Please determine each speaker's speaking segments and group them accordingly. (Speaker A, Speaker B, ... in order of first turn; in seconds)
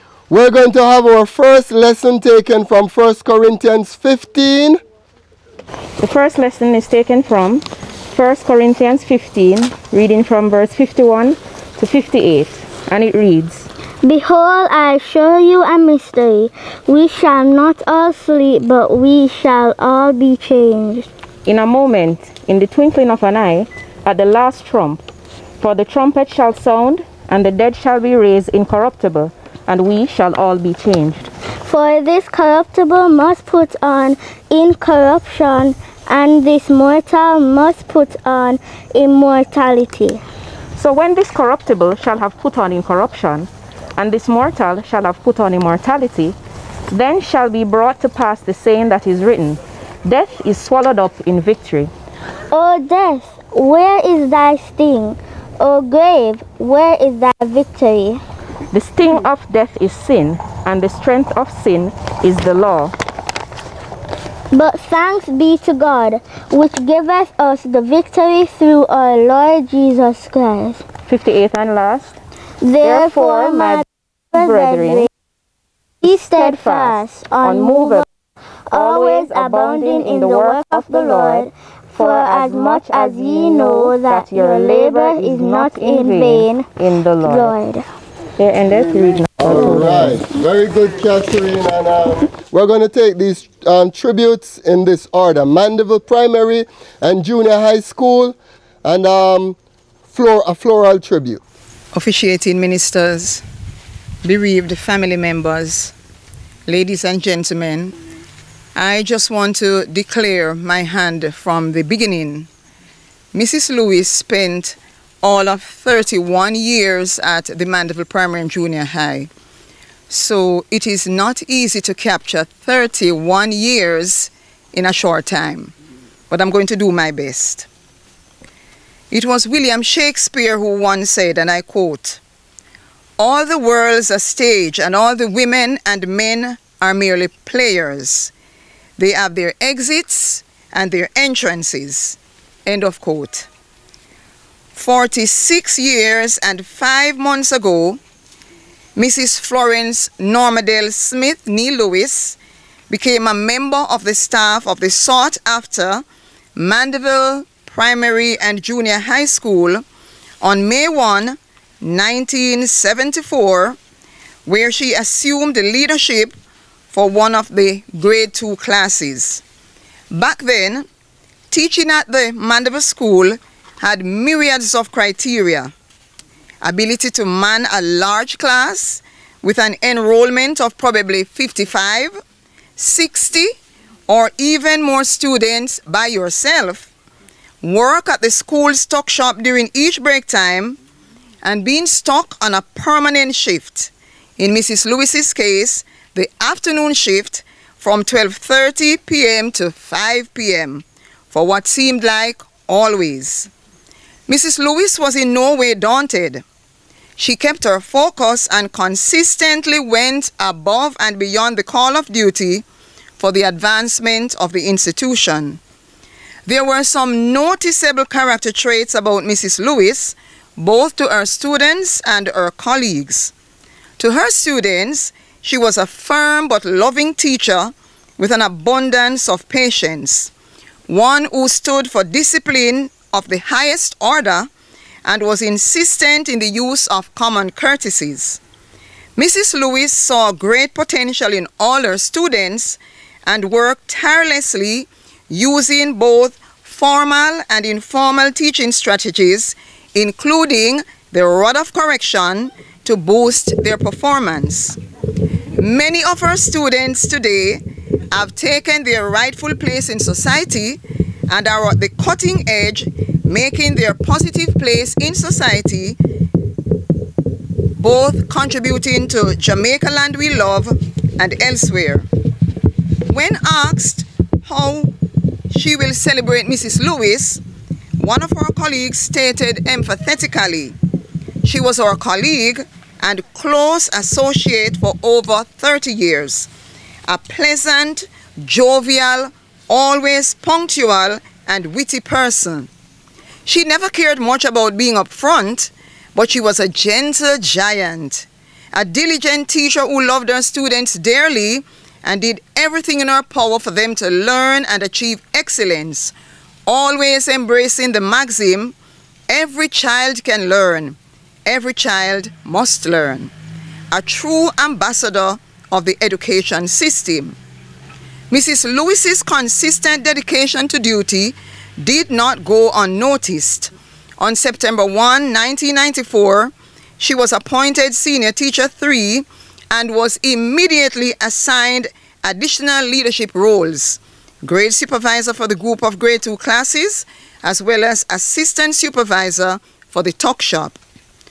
Speaker A: 0.3-4.8, 89.4-99.5, 100.1-101.4
Speaker B: 6.0-13.7, 21.4-25.0, 25.6-31.3, 40.8-46.4, 46.9-51.9, 58.7-62.9, 71.1-72.2, 72.8-73.8, 74.3-75.1, 76.3-78.0, 78.7-87.6, 88.4-90.2
Speaker C: 14.0-21.1, 31.6-40.2, 52.5-58.2, 64.5-70.8, 72.6-75.1, 76.0-78.0, 78.7-86.7, 87.2-87.9
Speaker D: 101.9-103.4, 104.2-105.9, 106.7-108.0, 108.8-112.5, 113.3-119.3, 120.1-125.7, 126.3-127.7, 129.1-132.2, 133.2-138.3, 139.0-143.5, 144.7-148.0, 148.9-152.4, 152.9-156.0, 156.6-159.8, 160.4-163.8, 164.4-166.3, 166.9-169.4, 170.1-170.9, 171.5-175.7, 176.6-182.2, 182.8-183.6, 184.1-186.9, 187.6-190.8, 191.4-203.5, 204.3-206.4, 207.2-212.6, 213.2-215.6, 216.4-223.3, 224.0-230.3, 230.9-234.5, 235.0-238.4, 239.2-254.8, 255.6-266.0, 267.8-272.1, 273.1-274.9, 275.5-277.4, 278.0-280.7, 281.4-286.5, 287.1-292.7, 293.4-306.1, 306.6-308.7, 309.3-313.3, 313.9-317.3, 318.3-340.8